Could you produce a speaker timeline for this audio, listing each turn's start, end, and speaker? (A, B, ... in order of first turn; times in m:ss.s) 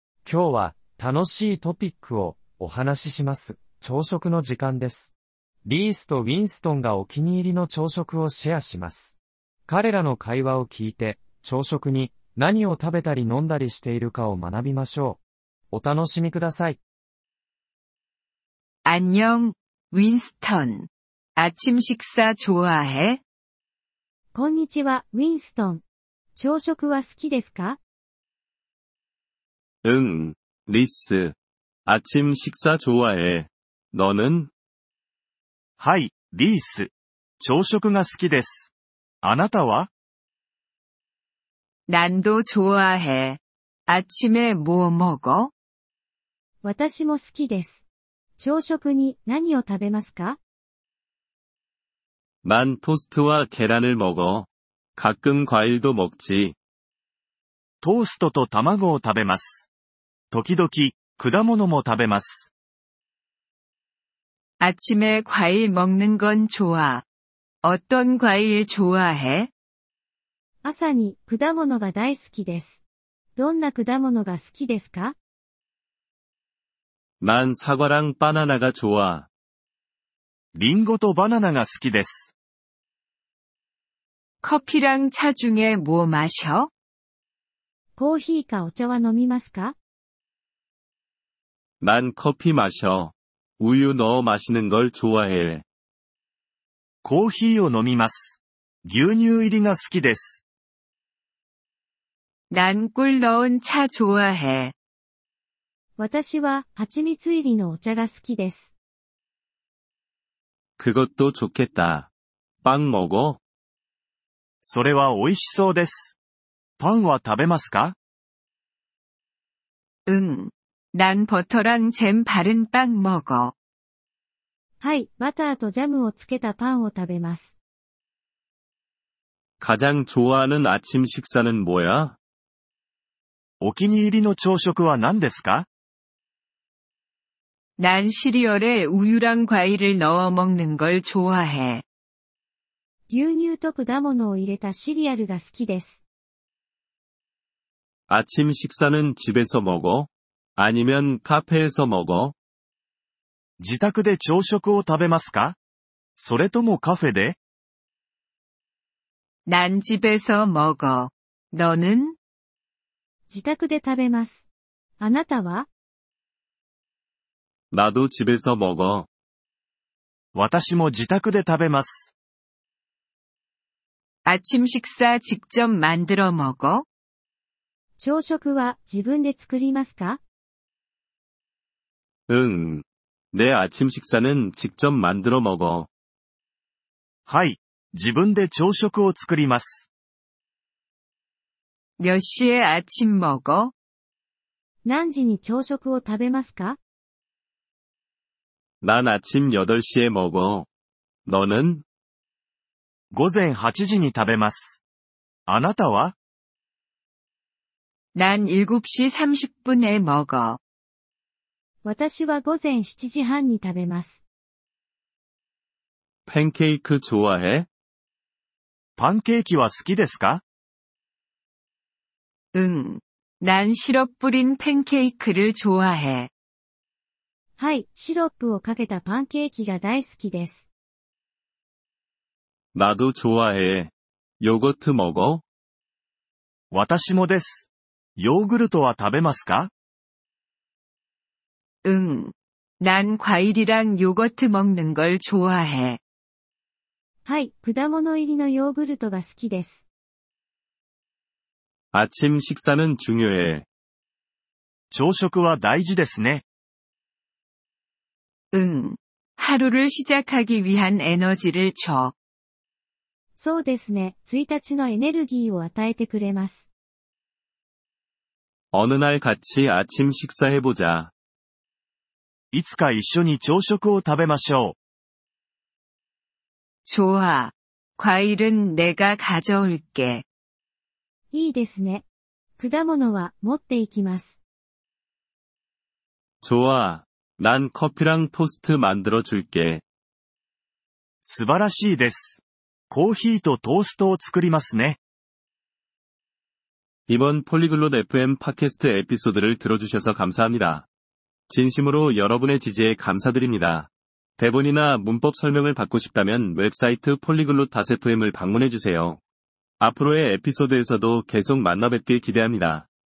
0:00.2-0:05.1 A
0:05.6-0:09.2 A
0:09.7-0:15.2 A
0:15.7-0:16.8 A
0:18.8-0:23.2 B
0:24.3-0:25.8 C
0:26.4-0:27.8 C
0:29.8-0:31.4 D
0:31.9-0:34.5 D
0:35.8-0:38.7 E
0:39.2-0:39.9 E
0:41.9-0:45.5 B
0:46.6-0:47.8 C
0:48.4-0:50.4 C
0:52.4-0:56.6 D
0:57.8-0:59.7 E
1:00.3-1:02.5 E
1:04.6-1:07.0 B
1:07.6-1:09.5 B
1:10.6-1:12.8 C
1:13.4-1:15.2 C
1:17.2-1:19.3 D
1:20.5-1:22.3 E
1:24.4-1:26.7 B
1:28.0-1:29.8 C
1:31.8-1:35.6 D
1:37.0-1:40.4 E
1:42.5-1:44.7 B
1:46.0-1:48.7 C
1:50.8-1:52.1 D
1:52.6-1:53.4 D
1:54.6-1:56.2 E
1:56.8-1:58.0 E
2:00.1-2:03.5 B
2:04.8-2:07.6 C
2:09.6-2:12.2 D
2:13.6-2:15.7 E
2:17.8-2:21.8 B
2:23.1-2:26.0 C
2:28.1-2:32.3 D
2:33.6-2:35.6 E
2:36.2-2:37.4 E
2:39.5-2:42.2 B
2:43.3-2:44.5 C
2:45.0-2:45.7 C
2:47.7-2:49.1 D
2:50.3-2:52.1 E
2:54.2-2:56.8 B
2:58.0-3:00.2 C
3:02.3-3:05.9 D
3:07.3-3:09.9 E
3:12.0-3:13.7 B
3:14.8-3:16.8 C
3:18.8-3:20.7 D
3:21.3-3:21.8 D
3:23.1-3:24.8 E
3:25.5-3:26.2 E
3:28.2-3:30.6 B
3:31.8-3:34.2 C
3:36.3-3:37.7 D
3:39.0-3:40.4 E
3:42.5-3:46.3 B
3:47.6-3:50.7 C
3:52.7-3:55.4 D
3:56.7-3:59.7 E
4:01.8-4:06.0 B
4:07.2-4:09.8 C
4:11.9-4:13.6 D
4:14.9-4:16.4 E
4:18.5-4:22.1 B
4:23.4-4:26.7 C
4:28.7-4:31.1 D
4:32.5-4:34.8 E
4:36.9-4:40.2 B
4:41.3-4:42.0 C
4:42.6-4:44.4 C
4:46.4-4:49.8 D
4:51.2-4:55.0 E
4:57.1-5:00.9 D
5:01.5-5:09.2 D
5:09.8-5:12.9 D